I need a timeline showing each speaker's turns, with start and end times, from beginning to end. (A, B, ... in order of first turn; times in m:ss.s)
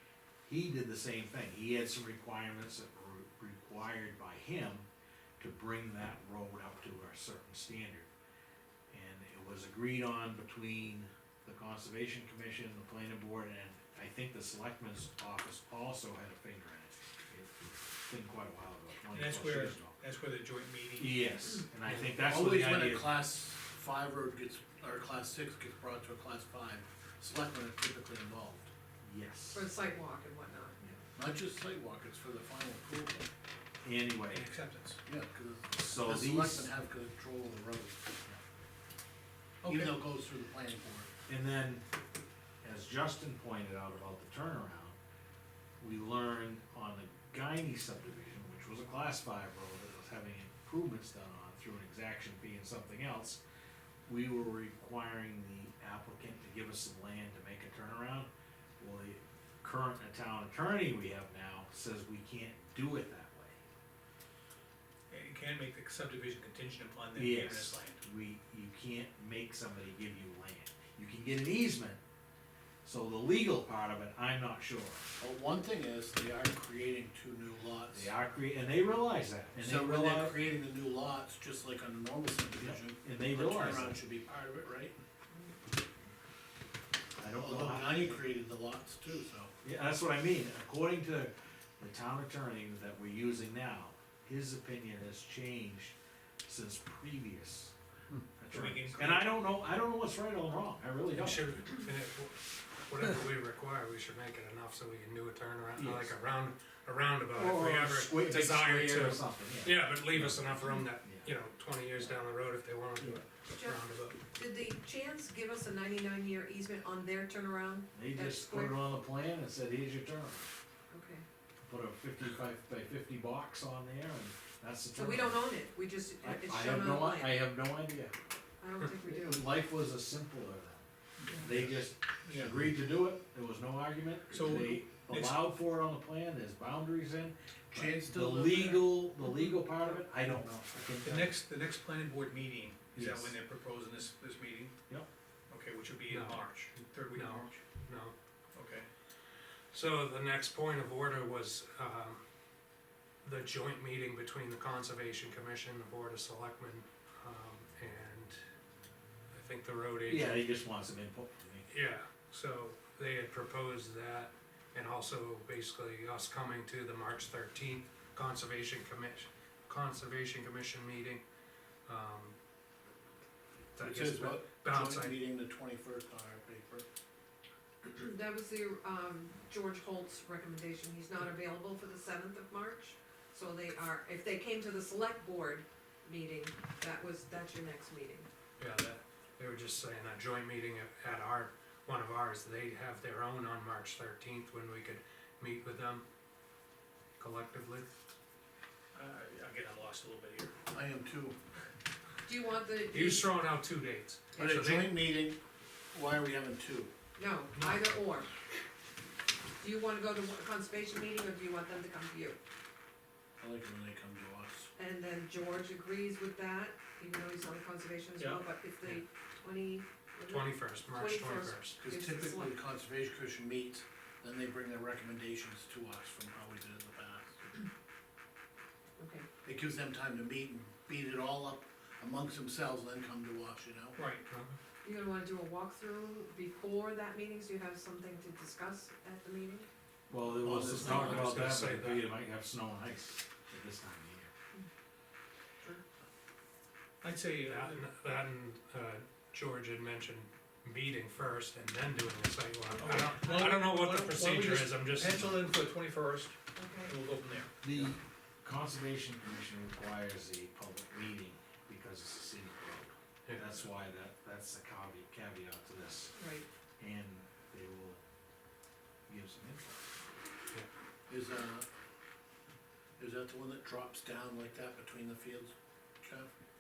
0:00.5-0:04.9 A
0:05.4-0:08.1 A
0:08.9-0:20.0 A
0:19.1-0:21.3 B
0:21.0-0:23.1 A
0:22.2-0:28.7 C
0:29.0-0:29.7 A
0:29.5-0:30.9 D
0:31.2-0:33.3 C
0:33.8-0:34.5 A
0:34.3-0:35.0 B
0:35.0-0:38.0 C
0:35.7-0:36.7 A
0:39.6-0:40.0 B
0:39.6-0:41.1 C
0:41.3-0:41.8 A
0:42.6-0:45.0 A
0:45.8-0:53.4 A
0:54.1-1:03.6 A
1:05.1-1:08.0 B
1:07.2-1:12.0 A
1:12.8-1:15.1 A
1:15.2-1:18.1 C
1:17.9-1:20.4 A
1:19.6-1:25.0 C
1:22.6-1:24.0 A
1:27.2-1:28.2 A
1:27.4-1:29.5 C
1:29.6-1:37.7 A
1:38.4-1:41.7 A
1:38.5-1:39.4 B
1:41.2-1:54.2 E
1:45.8-1:46.1 A
1:47.3-1:51.3 A
1:53.5-1:58.8 D
1:57.9-2:00.5 A
2:00.9-2:01.2 D
2:01.6-2:05.5 A
2:04.9-2:07.5 D
2:06.2-2:08.2 A
2:08.6-2:09.6 D
2:09.0-2:10.8 A
2:11.2-2:12.7 B
2:11.4-2:21.4 A
2:14.3-2:15.5 B
2:17.7-2:19.1 C
2:21.0-2:24.7 B
2:22.9-2:23.3 A
2:25.5-2:27.6 B
2:26.1-2:28.2 E
2:28.5-2:28.9 B
2:29.7-2:32.2 E
2:33.2-2:38.4 E
2:39.3-2:40.5 E
2:40.1-2:41.7 A
2:41.7-2:51.2 E
2:51.9-2:52.4 E
2:53.8-2:55.2 E
2:53.8-2:56.8 C
2:57.8-3:08.3 D
3:08.6-3:16.0 E
3:17.2-3:17.9 E
3:18.9-3:20.6 B
3:20.7-3:21.4 C
3:22.3-3:23.3 D
3:22.9-3:25.0 E
3:24.4-3:25.4 C
3:25.9-3:26.9 C
3:27.2-3:28.3 D
3:27.6-3:27.8 E
3:29.6-3:32.4 D
3:33.4-3:34.7 C
3:34.8-3:42.5 D
3:40.3-3:41.8 E
3:41.8-3:47.4 C
3:49.0-3:49.3 D
3:49.4-3:54.0 C
3:54.0-3:54.3 B
3:54.3-3:54.6 E
3:54.8-3:59.7 D
4:00.1-4:04.3 A
4:00.4-4:01.6 C
4:00.6-4:02.1 E
4:00.8-4:01.2 D
4:07.0-4:07.8 B
4:07.4-4:15.4 E
4:12.7-4:17.9 B
4:16.5-4:17.0 D
4:17.6-4:26.2 A
4:23.3-4:23.6 E
4:26.2-4:26.5 D
4:26.8-4:28.0 A
4:29.1-4:29.9 A
4:31.1-4:31.7 C
4:33.0-4:36.3 C